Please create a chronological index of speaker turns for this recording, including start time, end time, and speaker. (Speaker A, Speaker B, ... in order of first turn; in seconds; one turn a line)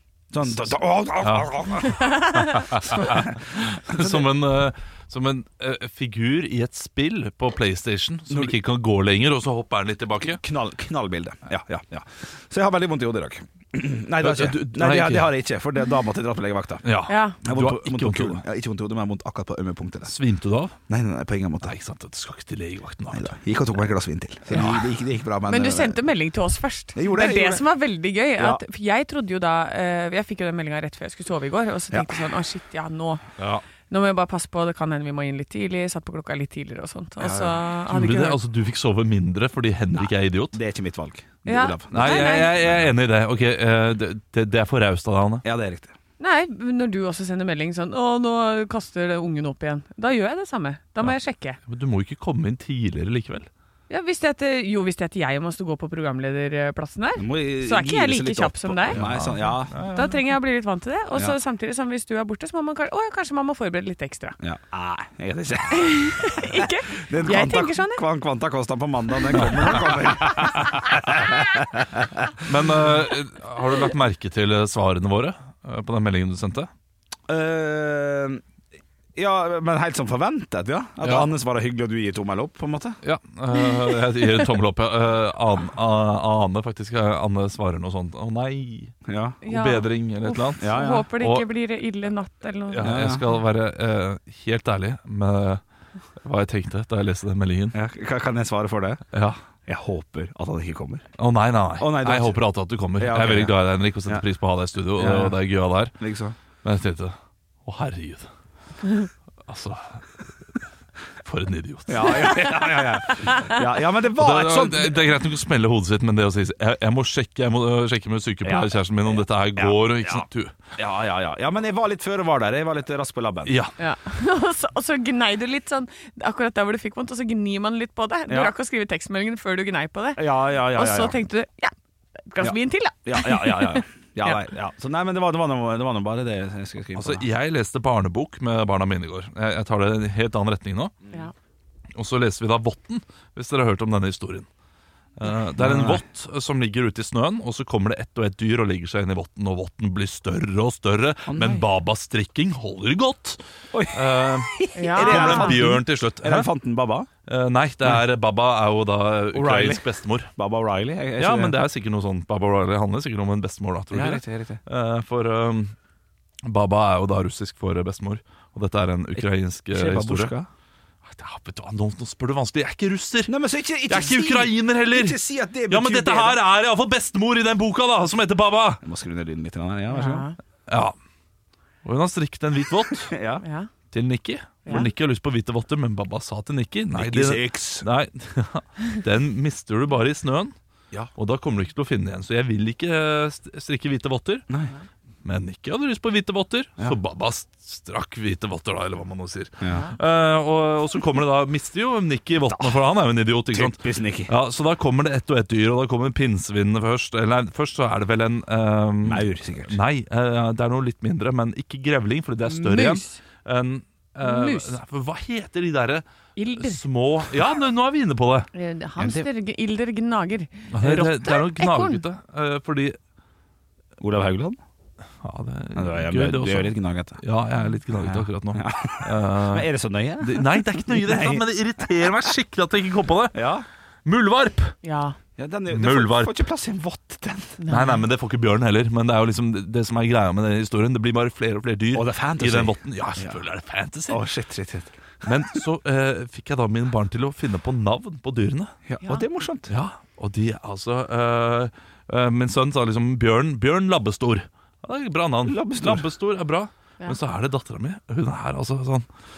Speaker A: 0.3-2.4
Speaker B: 1.2-1.5
Speaker C: 2.2-2.7
Speaker B: 2.4-10.4
Speaker A: 2.9-4.3
Speaker A: 8.3-8.6
Speaker A: 10.2-16.9
Speaker B: 14.2-15.3
Speaker B: 16.8-18.4
Speaker C: 17.1-17.4
Speaker A: 17.4-20.1
Speaker B: 20.1-20.8
Speaker A: 20.9-21.7
Speaker B: 21.6-23.3
Speaker A: 23.1-26.0
Speaker B: 24.5-24.9
Speaker C: 25.5-33.2
Speaker A: 26.9-27.6
Speaker B: 33.4-33.6
Speaker C: 33.9-38.4
Speaker A: 37.2-37.6
Speaker B: 37.9-40.6
Speaker A: 39.9-42.9
Speaker C: 41.4-42.5
Speaker B: 41.9-45.4
Speaker A: 45.4-45.9
Speaker C: 46.2-51.6
Speaker B: 51.6-53.5
Speaker C: 53.9-59.0
Speaker A: 57.2-59.8
Speaker B: 58.9-60.2
Speaker C: 59.9-64.4
Speaker A: 64.4-72.3
Speaker C: 65.7-68.0
Speaker B: 72.4-76.7
Speaker A: 77.3-78.4
Speaker A: 79.1-83.0
Speaker B: 81.0-81.3
Speaker B: 83.0-91.5
Speaker A: 89.1-89.4
Speaker C: 89.4-93.2
Speaker A: 90.6-91.1
Speaker B: 92.7-95.6
Speaker A: 92.8-93.2
Speaker B: 96.2-97.8
Speaker A: 97.7-99.0
Speaker B: 99.1-99.4
Speaker A: 99.7-101.1
Speaker B: 101.2-106.0
Speaker A: 101.8-102.4
Speaker A: 103.0-104.2
Speaker A: 105.0-105.4
Speaker A: 106.0-106.3
Speaker B: 106.6-107.1
Speaker B: 107.7-108.3
Speaker B: 109.0-110.3
Speaker B: 111.2-112.5
Speaker A: 111.9-115.0
Speaker B: 114.1-120.5
Speaker A: 118.4-120.2
Speaker A: 120.8-123.5
Speaker B: 123.5-123.7
Speaker C: 123.8-131.7
Speaker A: 128.3-128.5
Speaker A: 130.2-131.2
Speaker C: 132.2-134.4
Speaker A: 132.4-137.2
Speaker B: 136.9-140.9
Speaker B: 141.9-144.5
Speaker B: 145.2-153.4
Speaker A: 145.6-146.0
Speaker A: 151.3-151.6
Speaker A: 153.7-157.1
Speaker B: 153.9-156.5
Speaker C: 154.7-155.6
Speaker B: 157.2-160.3
Speaker A: 159.3-159.8
Speaker A: 160.4-161.6
Speaker B: 161.2-165.7
Speaker A: 163.9-164.6
Speaker B: 166.4-170.3
Speaker A: 169.2-170.5
Speaker B: 171.1-173.3
Speaker A: 173.3-176.4
Speaker B: 173.9-178.8
Speaker A: 178.8-180.3
Speaker C: 179.9-180.4
Speaker B: 180.7-180.9
Speaker B: 181.8-183.1
Speaker A: 183.1-183.4
Speaker C: 183.4-183.7
Speaker B: 183.9-190.5
Speaker A: 186.9-187.9
Speaker B: 191.1-194.4
Speaker B: 195.2-216.0
Speaker A: 199.6-199.9
Speaker A: 202.5-202.8
Speaker A: 203.5-204.3
Speaker A: 209.0-209.8
Speaker C: 212.5-213.2
Speaker C: 214.2-214.8
Speaker C: 216.4-216.8
Speaker B: 216.6-218.5
Speaker C: 218.5-222.0
Speaker A: 219.0-219.2
Speaker B: 220.7-223.0
Speaker A: 224.0-224.6
Speaker B: 225.2-229.7
Speaker A: 225.8-227.2
Speaker A: 227.9-231.4
Speaker B: 230.2-233.5
Speaker A: 233.3-233.7
Speaker B: 234.1-234.8
Speaker C: 234.8-235.2
Speaker A: 235.4-237.6
Speaker B: 235.7-236.3
Speaker C: 237.6-238.0
Speaker B: 237.7-244.2
Speaker A: 241.9-243.4
Speaker A: 244.1-245.6
Speaker B: 245.2-248.7
Speaker A: 248.9-249.7
Speaker B: 249.7-259.1
Speaker A: 255.5-256.1